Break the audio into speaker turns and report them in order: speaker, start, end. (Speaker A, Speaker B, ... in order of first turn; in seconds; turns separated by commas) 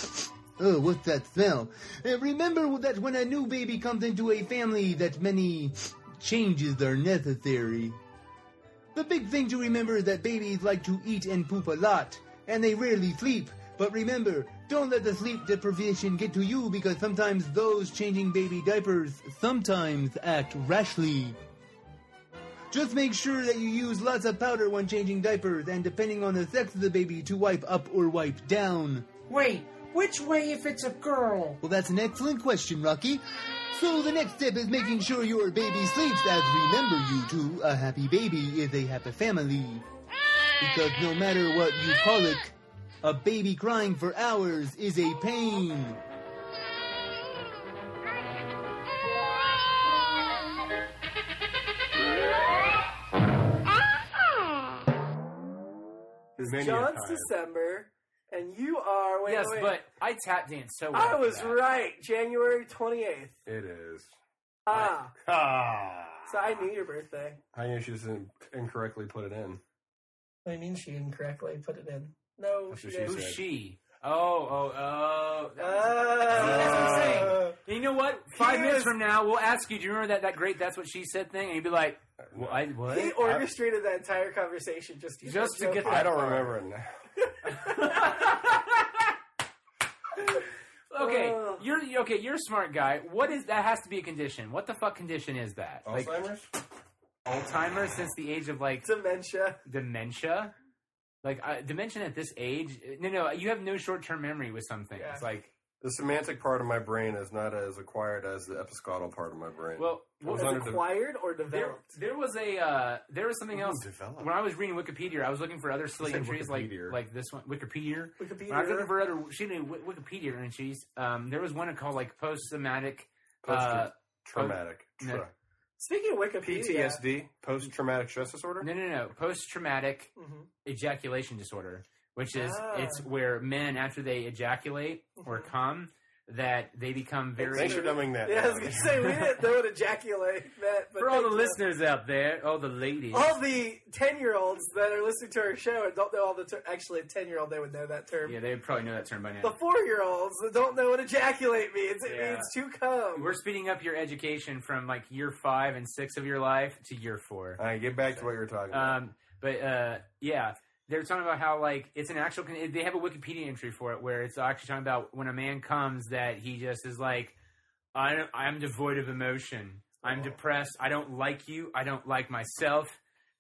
Speaker A: 0.6-8.0, Speaker A: 8.9-21.4, Speaker A: 22.7-29.1, Speaker B: 29.3-31.6, Speaker A: 31.6-39.8, Speaker A: 40.6-46.0, Speaker C: 56.4-57.3, Speaker D: 56.4-59.8, Speaker E: 59.3-61.6, Speaker D: 60.9-63.4, Speaker C: 63.5-64.1, Speaker D: 64.7-65.2, Speaker C: 65.2-66.3, Speaker D: 66.3-67.4, Speaker C: 67.5-69.6, Speaker D: 70.5-73.2, Speaker C: 72.7-73.4, Speaker E: 73.0-83.5, Speaker D: 75.6-77.5, Speaker C: 76.3-77.4, Speaker D: 78.3-79.0, Speaker C: 82.2-82.6, Speaker D: 82.9-86.3, Speaker E: 85.2-86.5, Speaker C: 85.8-86.9, Speaker E: 87.5-88.7, Speaker D: 87.5-88.2, Speaker E: 90.9-96.2, Speaker D: 91.0-91.7, Speaker C: 95.8-96.5, Speaker E: 97.2-98.9, Speaker D: 98.8-99.6, Speaker E: 99.7-100.5, Speaker E: 101.2-105.5, Speaker D: 105.0-105.2, Speaker C: 105.8-110.8, Speaker E: 109.8-110.8, Speaker D: 110.3-111.9, Speaker E: 111.5-125.3, Speaker C: 113.5-114.3, Speaker C: 116.0-117.0, Speaker D: 118.2-118.9, Speaker C: 123.4-125.3, Speaker D: 125.8-127.0, Speaker C: 126.4-128.7, Speaker E: 128.6-130.1, Speaker D: 130.2-130.5, Speaker E: 130.7-138.0, Speaker D: 132.3-133.1, Speaker D: 135.2-135.5, Speaker D: 137.4-141.6, Speaker C: 137.5-139.0, Speaker E: 138.7-139.4, Speaker E: 141.0-143.3, Speaker D: 143.1-148.4, Speaker E: 148.2-149.5, Speaker D: 149.4-153.4, Speaker E: 152.1-152.5, Speaker E: 153.2-157.6, Speaker C: 157.6-159.0, Speaker E: 158.1-167.3, Speaker E: 167.9-173.0, Speaker C: 170.1-170.4